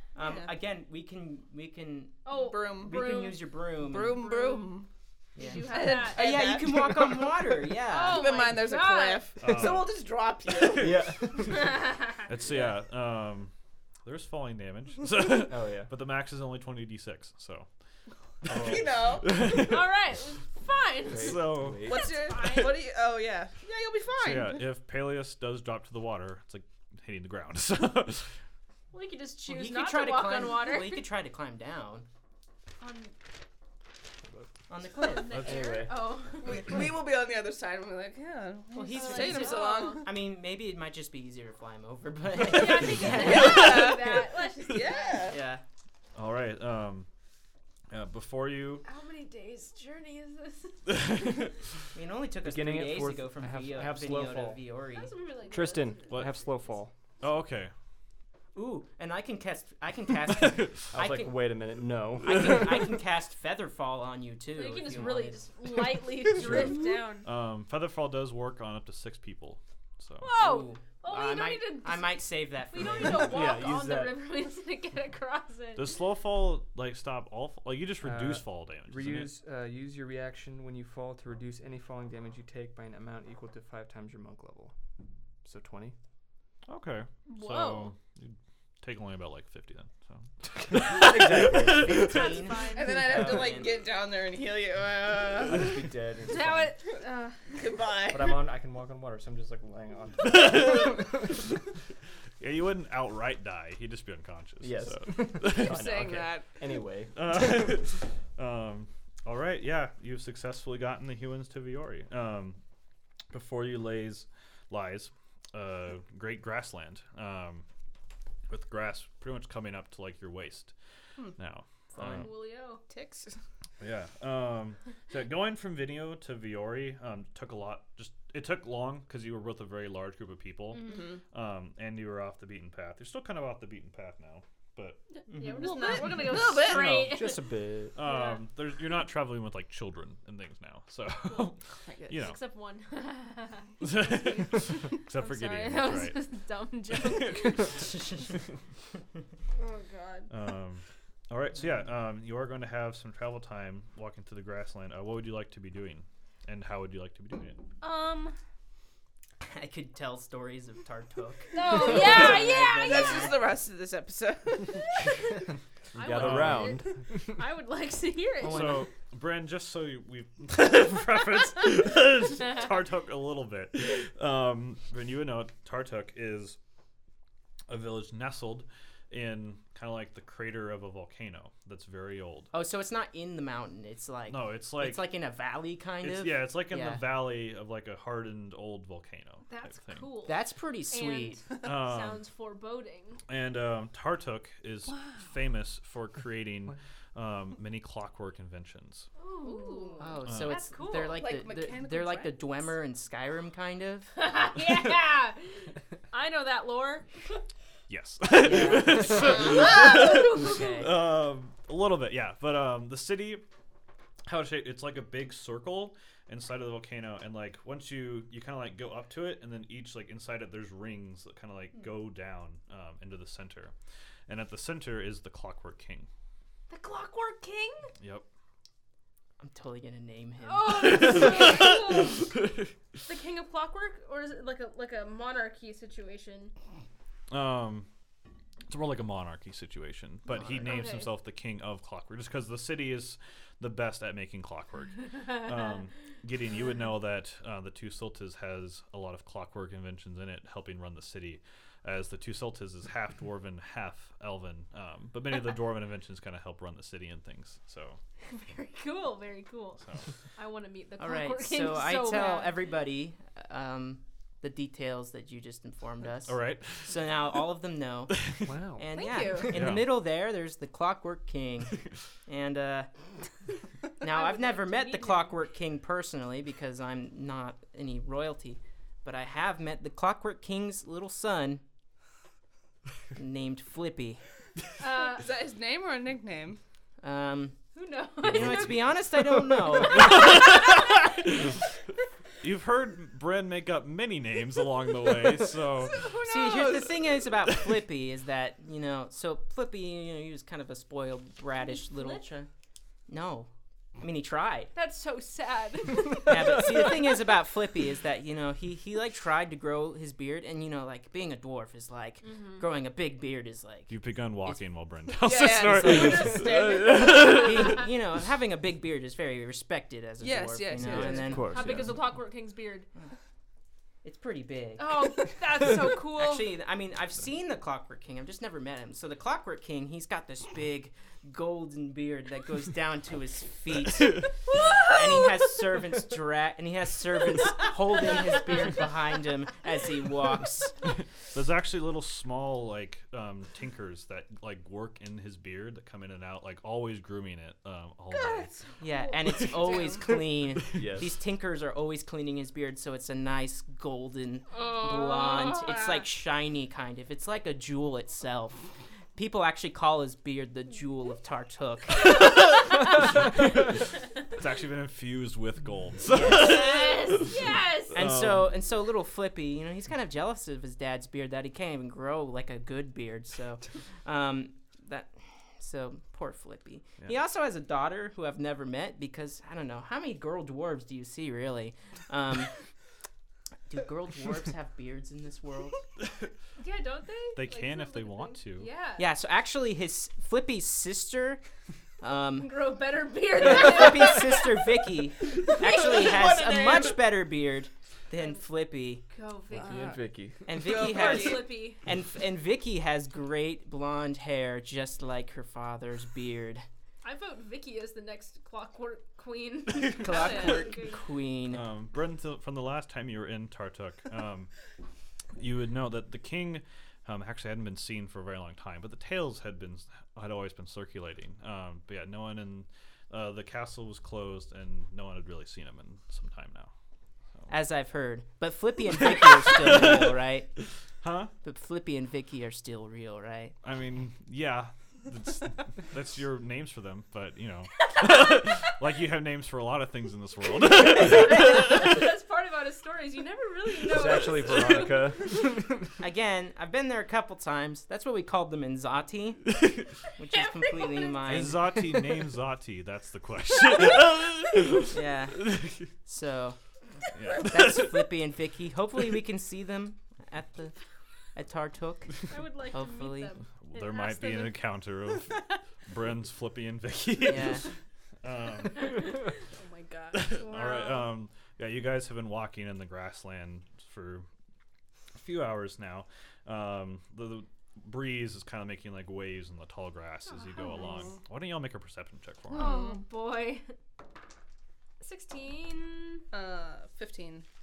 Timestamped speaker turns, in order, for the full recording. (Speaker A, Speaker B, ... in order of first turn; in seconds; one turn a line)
Speaker A: 0.1-2.2
Speaker B: 0.2-0.5
Speaker C: 2.2-3.5
Speaker B: 2.3-4.9
Speaker A: 2.8-4.2
Speaker C: 4.1-4.8
Speaker A: 5.3-8.6
Speaker B: 5.4-7.3
Speaker C: 5.4-6.6
Speaker C: 7.9-9.3
Speaker B: 8.0-11.1
Speaker D: 9.4-9.9
Speaker E: 9.4-9.8
Speaker E: 10.8-11.7
Speaker C: 11.5-12.2
Speaker D: 12.2-13.5
Speaker D: 14.0-17.7
Speaker E: 15.5-15.9
Speaker E: 18.5-18.9
Speaker D: 18.5-20.0
Speaker B: 18.5-19.3
Speaker C: 19.4-22.8
Speaker E: 21.0-22.1
Speaker D: 21.1-22.6
Speaker B: 21.8-24.6
Speaker D: 24.2-28.4
Speaker C: 28.9-31.1
Speaker A: 29.4-32.1
Speaker C: 32.8-33.1
Speaker A: 34.7-35.5
Speaker C: 35.0-36.9
Speaker D: 35.3-35.8
Speaker E: 35.3-35.9
Speaker B: 36.4-40.1
Speaker A: 38.7-44.0
Speaker C: 38.8-40.0
Speaker C: 42.4-45.3
Speaker B: 43.1-45.4
Speaker A: 45.2-45.6
Speaker D: 46.1-47.1
Speaker D: 47.9-48.9
Speaker C: 48.8-51.0
Speaker D: 50.9-51.6
Speaker A: 51.9-55.1
Speaker E: 52.4-54.6
Speaker C: 54.9-56.7
Speaker E: 55.5-56.9
Speaker D: 56.1-56.4
Speaker D: 57.2-57.7
Speaker A: 58.5-61.6
Speaker D: 60.3-60.8
Speaker E: 60.9-62.8
Speaker A: 62.2-65.4
Speaker C: 64.5-67.3
Speaker D: 66.4-70.3
Speaker C: 70.2-75.9
Speaker A: 70.3-73.5
Speaker E: 73.2-74.2
Speaker D: 75.7-79.3
Speaker E: 78.0-84.8
Speaker E: 85.4-86.0
Speaker D: 86.7-92.3
Speaker C: 87.3-87.9
Speaker E: 90.8-92.1
Speaker A: 91.3-93.7
Speaker C: 91.9-93.0
Speaker B: 92.7-95.9
Speaker E: 95.4-96.8
Speaker C: 96.3-97.5
Speaker B: 97.5-98.5
Speaker E: 98.1-101.4
Speaker D: 100.2-100.9
Speaker D: 102.4-106.3
Speaker E: 104.6-107.7
Speaker B: 105.5-106.5
Speaker D: 107.1-112.6
Speaker D: 113.3-117.7
Speaker D: 118.5-120.7
Speaker D: 121.3-122.3
Speaker C: 122.0-122.8
Speaker B: 122.9-123.4
Speaker D: 123.8-135.0
Speaker B: 130.8-131.2
Speaker A: 135.3-135.7
Speaker C: 135.3-137.4
Speaker B: 135.4-137.0
Speaker D: 136.7-137.1
Speaker E: 136.7-138.0
Speaker D: 137.9-142.4
Speaker C: 138.0-138.4
Speaker B: 141.8-142.2
Speaker C: 142.1-148.0
Speaker D: 143.8-146.2
Speaker D: 146.9-147.7
Speaker C: 149.6-150.2
Speaker B: 149.6-150.3
Speaker D: 150.3-157.6
Speaker C: 157.8-158.3
Speaker A: 159.4-163.4
Speaker C: 161.5-163.3
Speaker B: 162.8-164.9
Speaker E: 165.9-167.4
Speaker C: 165.9-168.8
Speaker D: 166.1-166.8
Speaker D: 168.4-176.6
Speaker D: 177.7-182.5
Speaker A: 182.5-187.0
Speaker D: 184.3-185.1
Speaker D: 186.0-190.1
Speaker C: 189.5-190.4
Speaker A: 190.2-191.4
Speaker C: 190.9-193.2
Speaker D: 191.6-192.2
Speaker D: 193.3-199.1
Speaker C: 199.2-201.3
Speaker B: 199.4-200.1
Speaker A: 200.0-204.2
Speaker D: 200.2-200.5
Speaker B: 201.0-202.4
Speaker C: 204.2-207.1
Speaker D: 207.9-213.4
Speaker A: 208.4-209.8
Speaker C: 208.9-210.7
Speaker A: 210.3-210.9
Speaker D: 214.3-223.7
Speaker D: 224.3-226.1
Speaker C: 226.7-227.9
Speaker D: 228.0-228.2
Speaker A: 229.4-231.5
Speaker C: 230.4-232.3
Speaker D: 230.9-232.7
Speaker C: 233.1-236.5
Speaker D: 237.3-237.9
Speaker D: 238.7-258.0
Speaker A: 240.3-240.8
Speaker C: 240.6-241.1
Speaker C: 258.3-262.6
Speaker D: 259.8-260.1
Speaker A: 261.0-272.9
Speaker D: 266.2-266.9
Speaker D: 268.1-268.5
Speaker E: 268.4-268.9
Speaker C: 268.9-269.6
Speaker D: 269.5-269.9
Speaker A: 274.0-281.6
Speaker C: 274.0-275.4
Speaker A: 283.1-284.2
Speaker C: 284.8-285.3
Speaker B: 285.1-286.6
Speaker A: 287.0-287.6
Speaker C: 287.7-291.1
Speaker A: 288.2-290.4
Speaker D: 289.9-291.3
Speaker D: 292.4-296.1
Speaker C: 295.8-296.9
Speaker A: 296.2-302.5
Speaker C: 301.7-302.3
Speaker A: 303.1-304.7
Speaker C: 304.7-307.1
Speaker A: 306.2-313.9
Speaker C: 312.2-312.6
Speaker D: 313.9-317.8
Speaker B: 315.2-316.9
Speaker C: 315.8-317.8
Speaker A: 315.9-316.1
Speaker A: 317.0-321.7
Speaker B: 320.2-321.5
Speaker E: 320.8-322.0
Speaker C: 321.3-322.9
Speaker D: 321.6-321.9
Speaker A: 324.0-325.3
Speaker C: 324.8-326.5
Speaker A: 326.1-340.7
Speaker D: 341.3-348.5
Speaker C: 348.1-349.9
Speaker A: 348.8-362.5
Speaker B: 349.5-350.1
Speaker E: 350.7-351.1
Speaker C: 354.5-356.1
Speaker D: 364.3-368.5
Speaker A: 366.1-366.9
Speaker C: 366.3-368.0
Speaker A: 367.9-382.5
Speaker A: 383.7-385.8
Speaker C: 386.6-389.1
Speaker D: 387.3-388.7
Speaker A: 389.0-391.4
Speaker A: 392.0-392.6
Speaker C: 392.4-394.8
Speaker A: 393.4-399.0
Speaker C: 395.3-397.0
Speaker B: 395.9-396.9
Speaker C: 399.1-400.0
Speaker B: 399.5-401.5
Speaker E: 399.6-400.5
Speaker A: 400.4-406.6
Speaker C: 400.6-401.8
Speaker C: 407.0-411.0
Speaker A: 409.9-411.6
Speaker B: 410.0-410.7
Speaker D: 411.5-414.5
Speaker D: 415.4-426.7
Speaker A: 427.5-430.5
Speaker D: 429.5-430.2
Speaker D: 431.0-431.3
Speaker A: 431.4-433.5
Speaker D: 433.6-442.0
Speaker C: 438.0-438.4
Speaker C: 440.9-445.1
Speaker E: 443.8-445.8
Speaker A: 446.0-449.6
Speaker A: 450.1-451.6
Speaker C: 450.6-451.3
Speaker D: 451.2-455.9
Speaker A: 454.9-456.6
Speaker D: 457.1-458.0
Speaker A: 457.4-460.7
Speaker A: 461.3-463.3
Speaker C: 462.3-464.7
Speaker D: 463.6-467.6
Speaker A: 467.2-467.6
Speaker D: 468.2-469.2
Speaker C: 468.8-471.1
Speaker D: 470.1-474.3
Speaker D: 475.1-482.8
Speaker C: 480.4-481.1
Speaker B: 482.5-483.0
Speaker C: 482.5-483.6
Speaker C: 485.0-486.2
Speaker B: 486.3-487.4